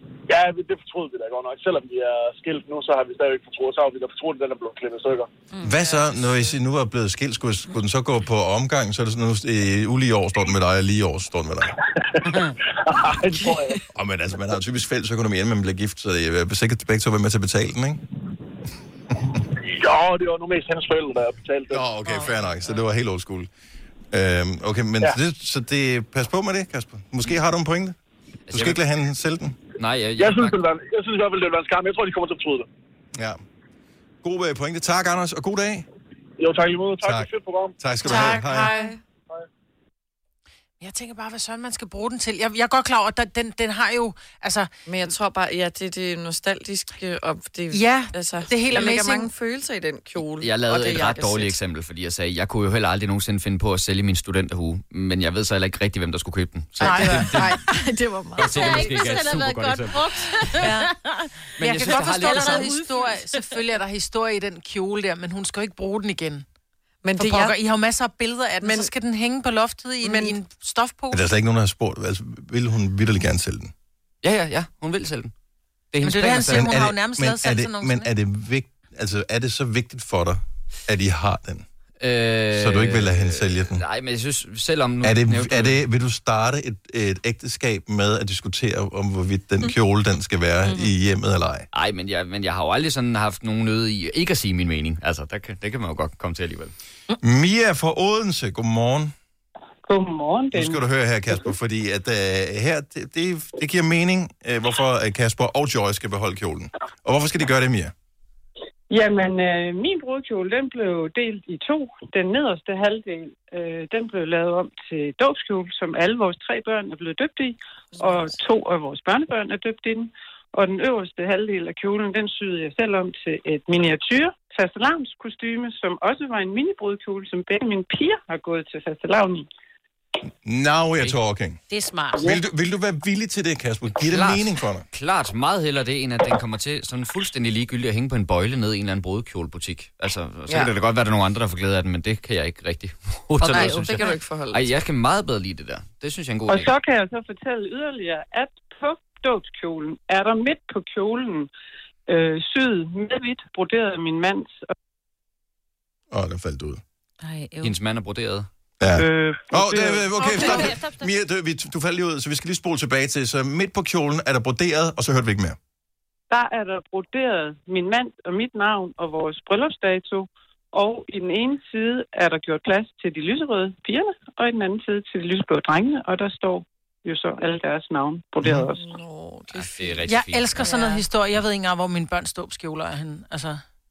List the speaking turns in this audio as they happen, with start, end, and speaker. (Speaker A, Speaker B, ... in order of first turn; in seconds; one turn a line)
Speaker A: 0.3-5.3
Speaker B: 5.5-5.8
Speaker C: 5.6-11.8
Speaker B: 12.3-12.5
Speaker A: 12.8-13.8
Speaker C: 13.9-18.0
Speaker A: 19.6-21.8
Speaker C: 21.7-23.5
Speaker C: 24.1-28.0
Speaker D: 28.5-28.8
Speaker C: 28.5-29.6
Speaker D: 29.8-30.6
Speaker A: 30.2-32.7
Speaker C: 33.1-33.4
Speaker C: 34.2-35.9
Speaker A: 36.4-37.8
Speaker C: 37.0-38.7
Speaker E: 38.0-39.0
Speaker F: 38.1-39.0
Speaker E: 40.8-44.7
Speaker F: 44.9-51.6
Speaker E: 47.7-49.3
Speaker D: 50.4-57.6
Speaker E: 56.8-57.6
Speaker F: 56.8-59.1
Speaker D: 58.4-60.5
Speaker B: 58.5-61.3
Speaker E: 60.6-60.9
Speaker D: 61.6-62.8
Speaker E: 61.6-66.5
Speaker B: 61.8-63.5
Speaker F: 67.0-67.6
Speaker E: 67.2-71.3
Speaker F: 68.6-68.9
Speaker F: 70.0-70.4
Speaker C: 71.1-73.7
Speaker D: 74.2-75.3
Speaker D: 75.9-76.8
Speaker E: 76.0-78.1
Speaker C: 76.5-81.7
Speaker D: 82.0-85.8
Speaker C: 82.5-83.8
Speaker C: 85.0-91.7
Speaker D: 91.7-96.7
Speaker C: 97.2-99.1
Speaker G: 99.8-100.8
Speaker C: 100.5-107.9
Speaker G: 108.9-129.5
Speaker F: 118.0-118.2
Speaker C: 130.4-131.6
Speaker B: 131.7-132.4
Speaker C: 132.2-134.8
Speaker D: 134.1-146.8
Speaker F: 143.4-144.7
Speaker G: 146.5-151.5
Speaker G: 152.1-154.6
Speaker C: 156.1-156.8
Speaker B: 157.2-157.7
Speaker D: 157.6-158.5
Speaker C: 158.8-165.6
Speaker G: 159.0-160.5
Speaker B: 160.2-161.1
Speaker G: 166.3-178.8
Speaker C: 178.4-178.7
Speaker F: 178.7-181.0
Speaker D: 179.5-180.7
Speaker E: 180.1-183.6